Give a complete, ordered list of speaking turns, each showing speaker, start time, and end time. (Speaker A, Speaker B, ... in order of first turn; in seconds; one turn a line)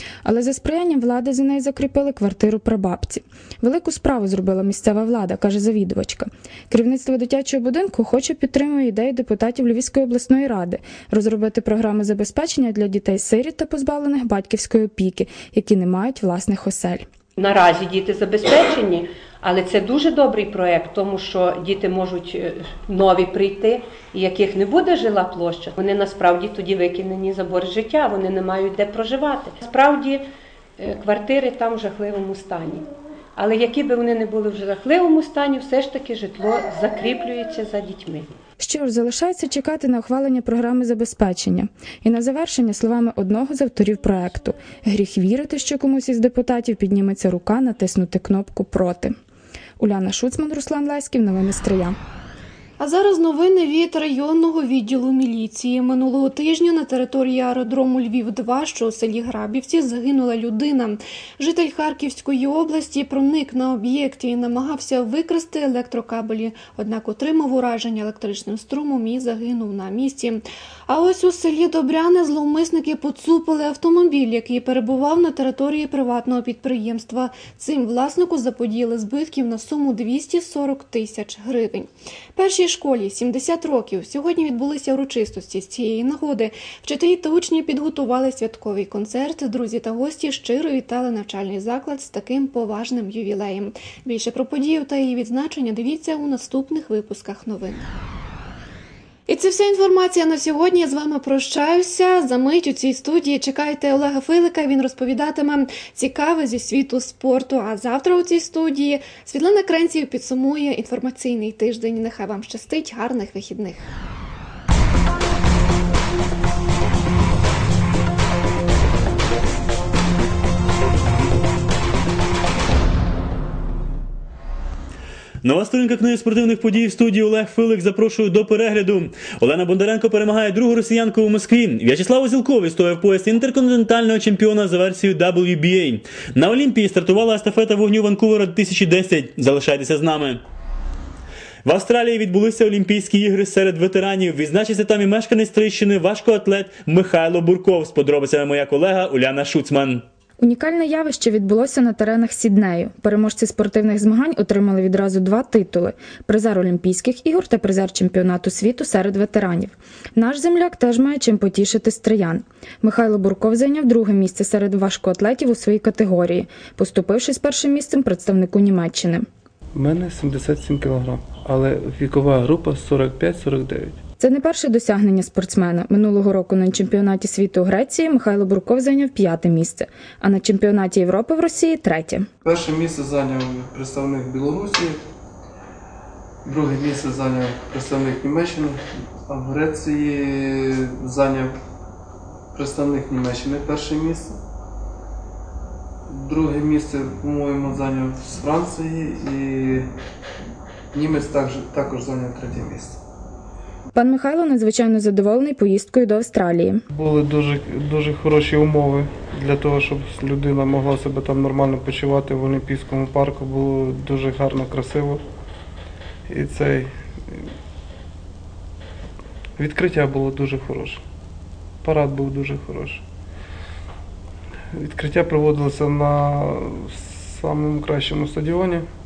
Speaker A: 0.2-17.1
Speaker B: 17.4-30.2
Speaker B: 30.8-38.3
Speaker A: 38.6-49.1
Speaker A: 49.8-52.0
Speaker C: 52.8-97.9
Speaker C: 99.3-113.9
Speaker D: 125.4-140.4
Speaker D: 141.6-150.0
Speaker A: 150.4-169.2
Speaker E: 169.7-174.0
Speaker A: 174.2-182.3
Speaker E: 182.4-185.0
Speaker E: 186.4-191.6
Speaker E: 192.5-194.4
Speaker E: 196.1-199.9
Speaker E: 200.9-203.0
Speaker A: 203.9-206.8
Speaker E: 206.9-215.2
Speaker E: 216.3-217.4
Speaker E: 219.6-221.0
Speaker E: 221.8-223.0
Speaker E: 224.7-228.8